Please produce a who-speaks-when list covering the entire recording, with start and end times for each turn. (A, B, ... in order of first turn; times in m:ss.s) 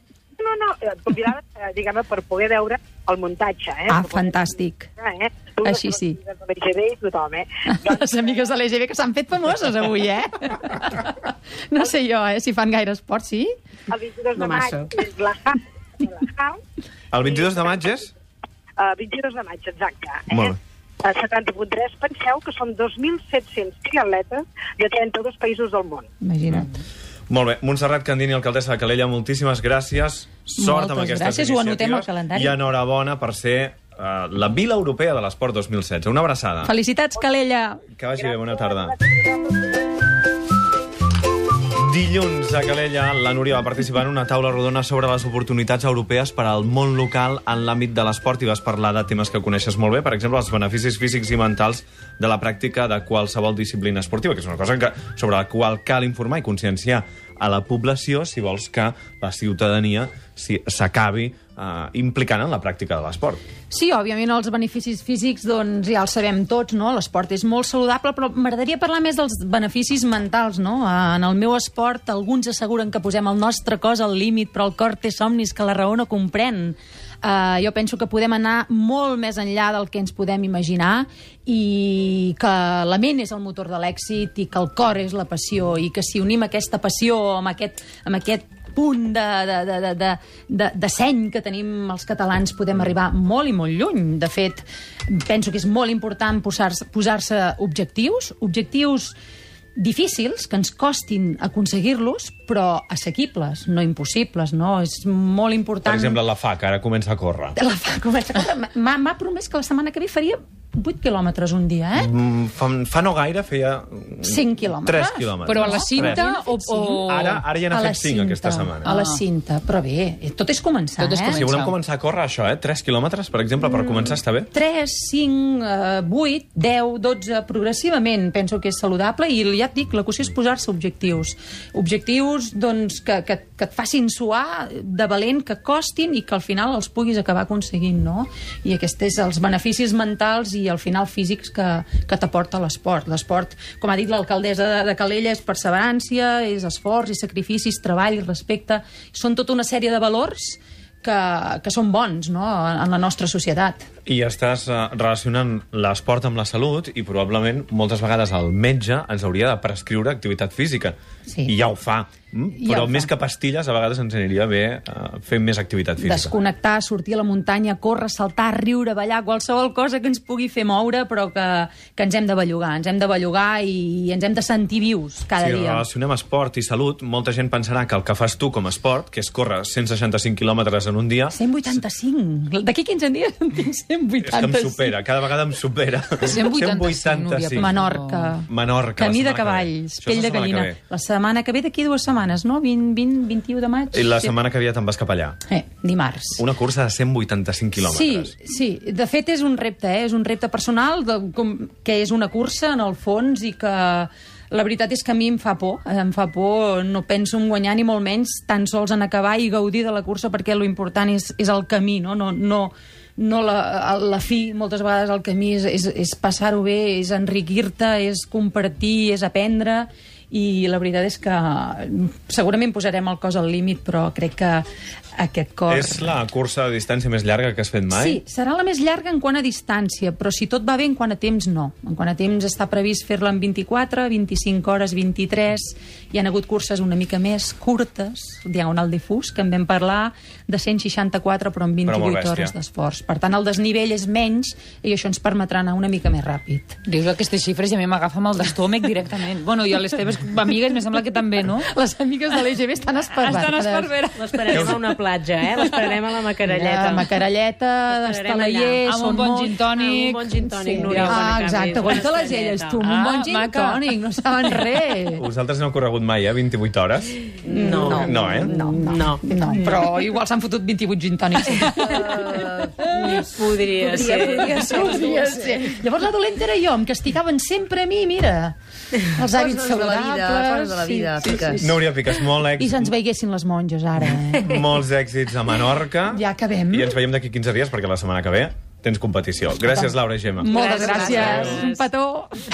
0:00.4-0:04.4 A
0:03.9-0:04.9 B
0:05.0-0:08.3 A
0:05.6-0:06.2 B
0:07.7-0:13.5 B
0:13.9-0:16.6 A
0:14.4-0:15.0 C
0:17.1-0:18.1 D
0:17.2-0:17.5 A
0:18.8-0:26.1 A
0:20.3-0:20.6 D
0:26.2-0:26.7 B
0:27.3-0:36.7 D
0:30.6-0:32.6 B
0:36.6-0:37.8 B
0:38.0-0:38.9 D
0:41.8-1:03.4 D
1:03.7-1:39.1 B
1:39.8-1:46.2 B
1:45.8-1:47.6 D
1:47.6-1:52.1 B
1:51.9-1:56.3 D
1:54.2-2:01.4 B
1:55.4-1:57.4 E
1:57.1-1:58.9 D
1:58.8-1:59.2 E
2:01.0-2:01.8 E
2:01.3-2:04.5 D
2:04.5-2:33.8 B
2:34.0-2:46.3 D
2:41.2-2:41.5 B
2:42.5-2:43.1 B
2:46.0-2:55.8 B
2:55.4-3:01.4 D
3:01.3-3:05.0 B
3:04.2-3:07.8 D
3:06.2-3:08.3 E
3:07.6-3:14.3 B
3:08.5-3:10.8 D
3:13.9-3:15.4 D
3:15.5-3:16.4 B
3:16.4-3:18.3 D
3:17.8-3:44.6 B
3:45.2-3:46.1 B
3:45.7-3:48.2 D
3:47.9-4:06.8 B
4:01.8-4:02.5 D
4:06.8-4:11.7 E
4:11.7-4:13.9 B
4:13.2-4:14.8 E
4:14.2-4:17.1 C
4:14.5-4:14.8 D
4:16.5-4:19.6 B
4:17.9-4:18.8 C
4:18.8-4:20.3 E
4:19.7-4:22.8 C
4:20.4-4:25.2 B
4:20.8-4:21.2 E
4:22.8-4:23.8 E
4:25.2-4:27.2 D
4:27.5-4:28.0 C
4:27.5-4:29.8 F
4:27.5-4:32.3 B
4:27.9-4:28.5 D
4:28.6-4:29.2 C
4:31.7-4:33.2 F
4:32.8-4:34.9 C
4:33.8-4:35.7 F
4:34.3-4:38.5 B
4:39.1-4:41.9 B
4:39.2-4:41.6 F
4:41.6-4:42.9 D
4:42.5-4:44.5 B
4:44.4-4:50.5 D
4:46.1-4:46.9 B
4:49.7-4:52.3 B
4:50.4-4:51.8 C
4:50.8-4:51.6 F